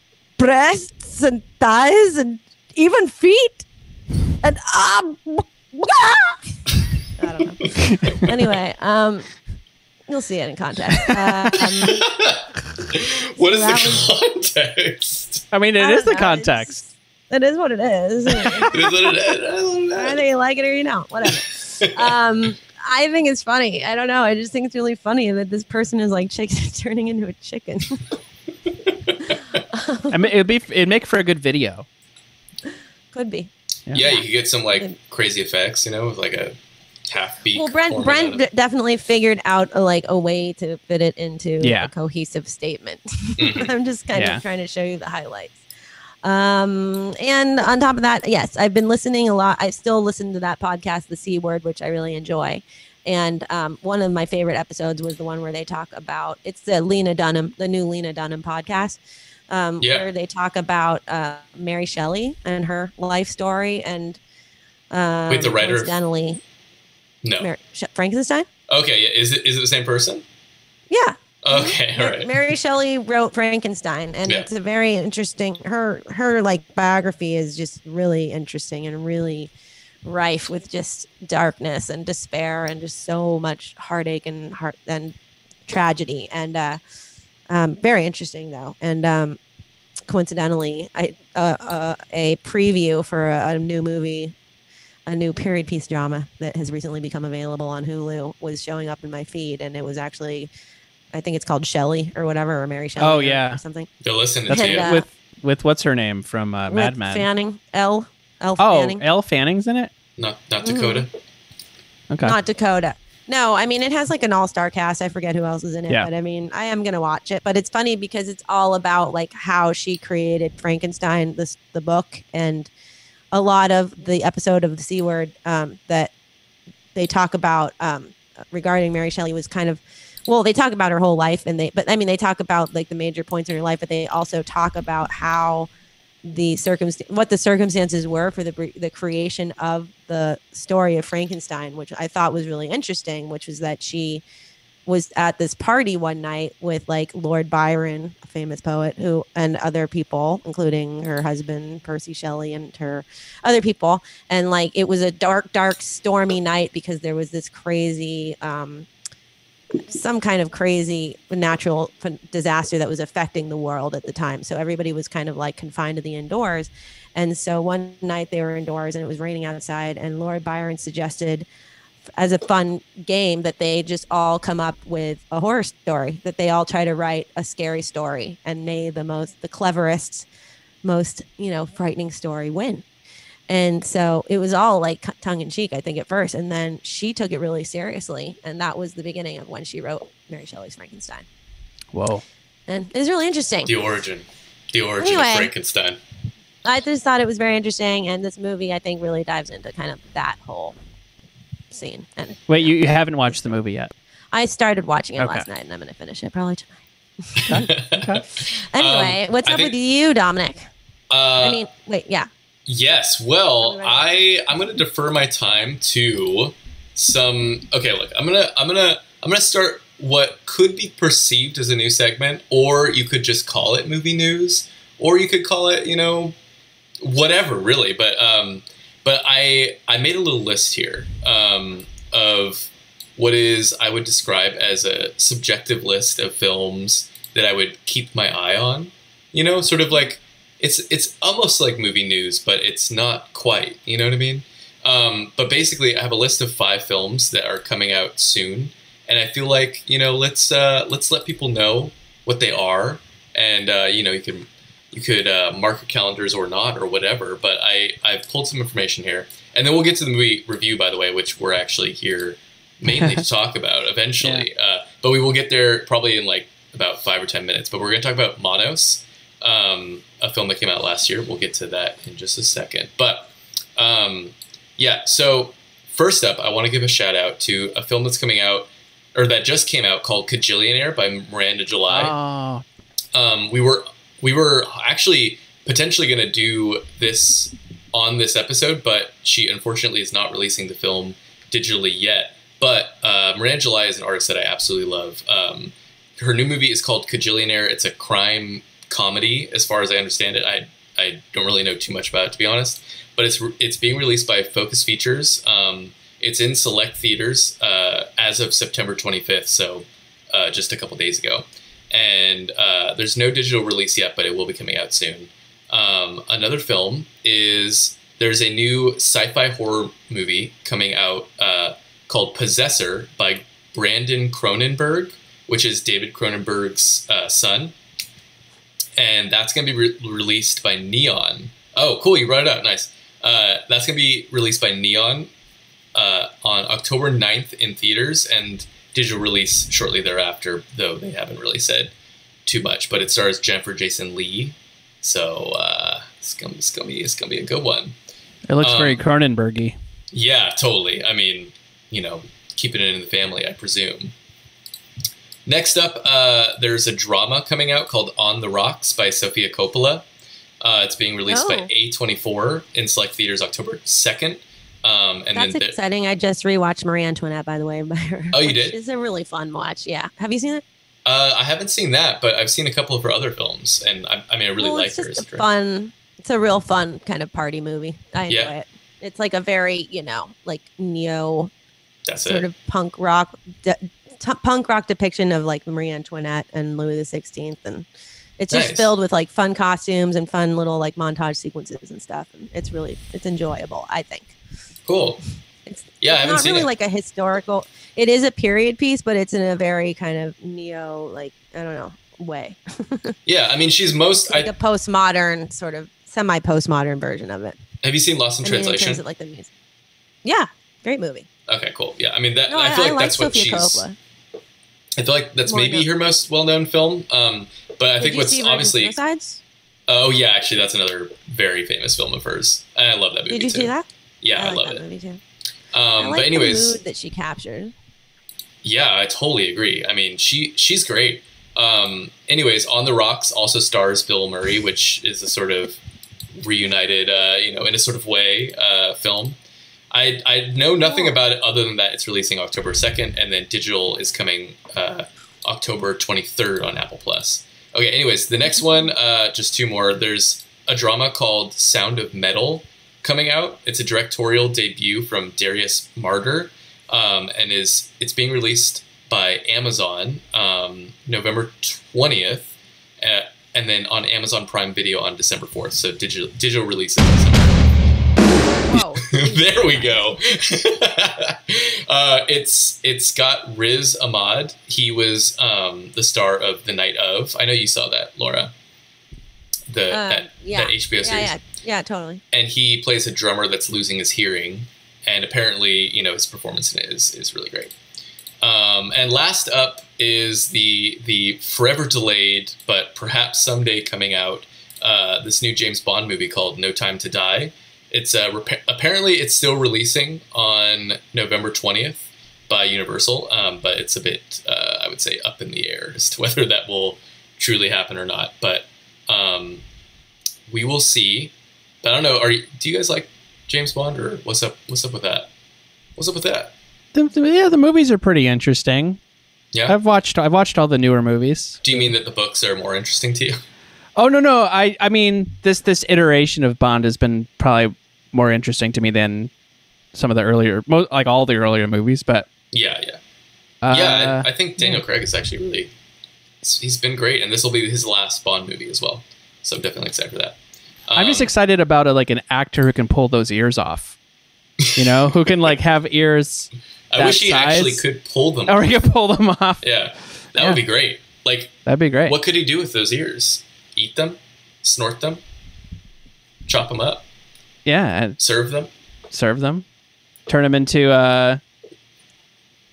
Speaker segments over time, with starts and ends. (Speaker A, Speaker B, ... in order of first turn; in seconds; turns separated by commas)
Speaker A: 0.4-3.7, Speaker A: 4.4-6.6, Speaker A: 7.2-9.3, Speaker A: 10.1-12.1, Speaker B: 11.6-15.4, Speaker A: 13.4-14.1, Speaker C: 15.5-16.8, Speaker A: 15.8-19.1, Speaker B: 18.4-20.2, Speaker A: 19.9-28.0, Speaker B: 21.3-22.1, Speaker A: 29.2-30.3, Speaker C: 30.1-31.9, Speaker A: 33.1-35.0, Speaker B: 33.9-36.5, Speaker B: 37.1-38.5, Speaker A: 37.5-45.6, Speaker C: 41.6-41.9, Speaker B: 43.4-43.7, Speaker C: 44.1-44.4, Speaker A: 46.2-64.2, Speaker B: 59.8-60.1, Speaker A: 64.9-66.4, Speaker B: 65.3-66.0, Speaker B: 67.2-67.5, Speaker A: 67.4-68.5, Speaker B: 68.7-70.2, Speaker A: 70.9-79.5, Speaker B: 71.4-72.4, Speaker A: 80.0-85.1, Speaker A: 85.7-86.8, Speaker A: 87.5-89.4, Speaker A: 90.1-94.3, Speaker A: 95.1-100.5, Speaker A: 101.1-103.9, Speaker C: 103.0-103.6, Speaker B: 104.0-104.9, Speaker A: 104.5-105.0, Speaker C: 104.5-107.3, Speaker A: 106.7-109.0, Speaker C: 108.6-109.9, Speaker B: 110.2-111.1, Speaker A: 110.6-111.1, Speaker C: 112.1-112.4, Speaker A: 112.2-122.7, Speaker A: 123.3-126.1, Speaker A: 127.0-135.7, Speaker A: 136.2-144.2, Speaker A: 144.9-158.9, Speaker A: 159.9-171.4, Speaker A: 172.2-180.3, Speaker A: 180.8-182.8, Speaker A: 183.5-191.3, Speaker C: 191.9-192.2, Speaker A: 192.7-193.7, Speaker B: 193.7-196.0, Speaker A: 195.0-195.5, Speaker A: 196.6-200.8, Speaker A: 201.7-202.7, Speaker C: 202.5-203.9, Speaker A: 204.3-207.5, Speaker C: 205.2-205.5, Speaker C: 207.5-208.2, Speaker B: 207.5-209.7, Speaker A: 208.4-210.7, Speaker B: 211.1-211.6, Speaker A: 211.4-212.3, Speaker B: 212.7-226.4, Speaker A: 213.6-214.4, Speaker B: 227.0-282.1, Speaker C: 264.2-264.5, Speaker C: 281.9-282.6, Speaker B: 283.1-327.8, Speaker B: 329.0-335.3, Speaker B: 335.9-341.9, Speaker B: 342.5-348.0, Speaker C: 348.5-349.8, Speaker B: 348.6-349.0, Speaker B: 350.1-354.1, Speaker B: 355.5-360.1, Speaker B: 360.6-365.8, Speaker A: 361.3-361.7, Speaker A: 365.3-370.6, Speaker B: 368.3-368.8, Speaker B: 371.1-375.5, Speaker A: 374.6-381.5, Speaker B: 378.3-378.5, Speaker B: 382.1-382.5, Speaker A: 382.2-387.9, Speaker A: 388.4-394.4, Speaker B: 388.5-388.9, Speaker B: 394.9-395.2, Speaker A: 395.7-403.1, Speaker B: 396.0-396.7, Speaker B: 403.3-404.5, Speaker A: 404.3-407.6, Speaker B: 407.8-409.0, Speaker A: 408.4-409.5, Speaker A: 410.2-411.3, Speaker B: 411.5-413.9, Speaker A: 412.5-414.0, Speaker B: 415.0-419.0, Speaker A: 415.5-415.9, Speaker A: 418.0-419.4, Speaker B: 419.9-424.8, Speaker A: 423.3-425.2, Speaker B: 425.7-426.8, Speaker A: 426.0-427.7, Speaker B: 428.6-435.8, Speaker B: 436.4-439.4, Speaker B: 439.9-467.6, Speaker A: 440.9-441.2, Speaker A: 468.6-470.2, Speaker B: 468.7-478.5, Speaker B: 479.7-481.3, Speaker A: 479.9-482.2, Speaker B: 482.3-487.7, Speaker B: 488.4-509.6, Speaker B: 510.5-515.3, Speaker B: 516.0-516.5, Speaker C: 516.9-519.0, Speaker C: 519.7-521.9, Speaker B: 521.6-523.4, Speaker C: 524.0-529.3, Speaker C: 530.0-532.3, Speaker B: 532.5-533.0, Speaker C: 533.6-534.8, Speaker B: 533.7-535.7, Speaker B: 536.4-541.3, Speaker C: 541.0-544.0, Speaker B: 544.6-545.1, Speaker C: 544.8-547.9, Speaker B: 546.9-548.7, Speaker C: 548.5-549.6, Speaker B: 549.6-555.2, Speaker C: 551.7-552.2, Speaker B: 556.5-557.0, Speaker C: 557.7-558.2, Speaker B: 558.2-558.7, Speaker C: 559.1-559.6, Speaker C: 560.3-561.4